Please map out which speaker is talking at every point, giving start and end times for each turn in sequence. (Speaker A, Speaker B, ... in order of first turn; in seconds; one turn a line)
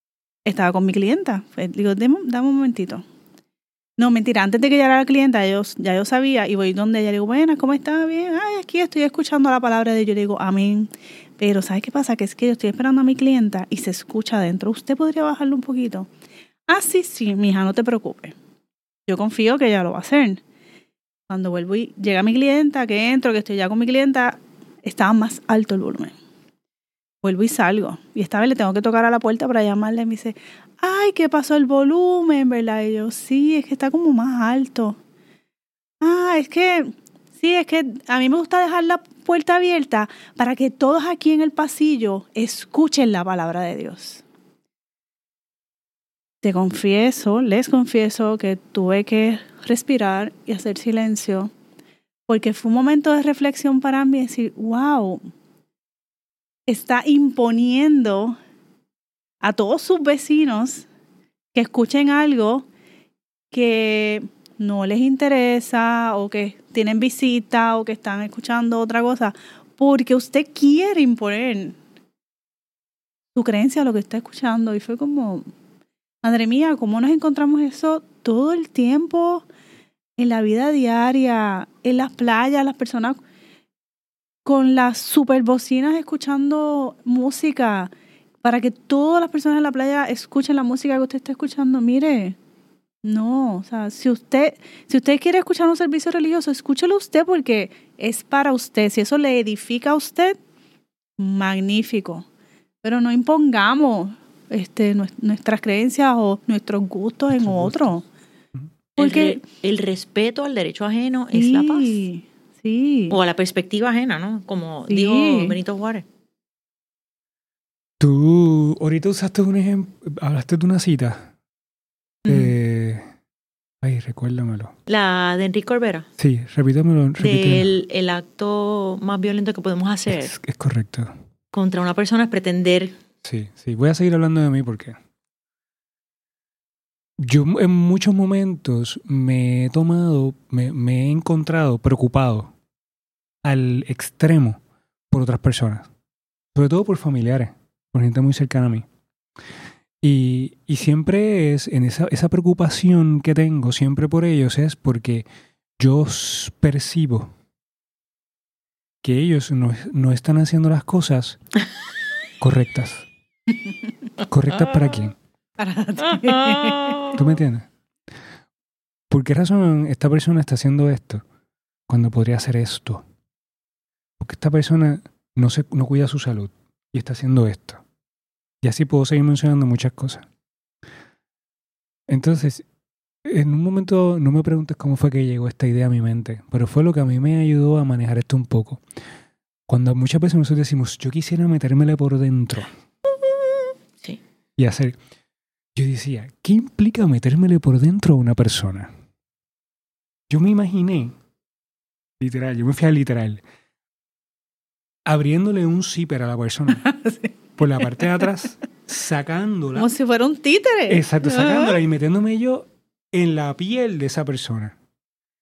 Speaker A: 0.5-3.0
Speaker A: 4.0-16.1
Speaker A: 16.7-18.3
Speaker A: 19.1-20.4
Speaker A: 21.3-26.1
Speaker A: 27.2-35.0
Speaker A: 36.0-44.2
Speaker A: 46.4-51.5
Speaker A: 52.3-55.3
Speaker A: 56.7-58.4
Speaker A: 59.4-60.9
Speaker A: 61.5-62.6
Speaker A: 63.5-71.8
Speaker A: 73.3-75.5
Speaker A: 76.2-79.5
Speaker A: 80.2-83.2
Speaker A: 84.4-87.9
Speaker A: 88.4-92.3
Speaker A: 93.0-100.4
Speaker A: 101.2-102.2
Speaker A: 102.8-108.0
Speaker B: 107.3-108.0
Speaker C: 109.0-112.0
Speaker A: 109.0-109.4
Speaker A: 111.3-113.2
Speaker C: 113.1-116.0
Speaker A: 114.9-115.5
Speaker B: 118.0-121.3
Speaker C: 122.2-122.5
Speaker B: 122.3-123.0
Speaker B: 123.8-124.7
Speaker C: 124.9-126.1
Speaker B: 126.2-127.7
Speaker C: 127.2-130.3
Speaker B: 130.1-131.1
Speaker C: 131.5-133.0
Speaker B: 133.2-135.0
Speaker B: 137.2-142.5
Speaker B: 143.4-145.9
Speaker B: 146.5-148.8
Speaker B: 150.0-155.2
Speaker B: 155.8-157.3
Speaker B: 159.0-161.4
Speaker B: 162.4-163.1
Speaker B: 164.3-165.2
Speaker C: 164.6-164.9
Speaker A: 165.6-167.1
Speaker C: 166.0-167.3
Speaker B: 167.1-167.7
Speaker B: 169.1-171.2
Speaker B: 171.9-173.0
Speaker B: 174.2-177.8
Speaker B: 178.6-180.2
Speaker B: 182.1-182.6
Speaker B: 183.2-188.8
Speaker B: 189.7-192.7
Speaker C: 193.1-194.2
Speaker B: 194.6-195.0
Speaker B: 195.7-198.9
Speaker B: 200.3-201.1
Speaker B: 202.2-203.4
Speaker B: 205.1-206.8
Speaker A: 206.8-208.1
Speaker B: 207.6-209.9
Speaker A: 209.8-211.8
Speaker B: 210.9-214.7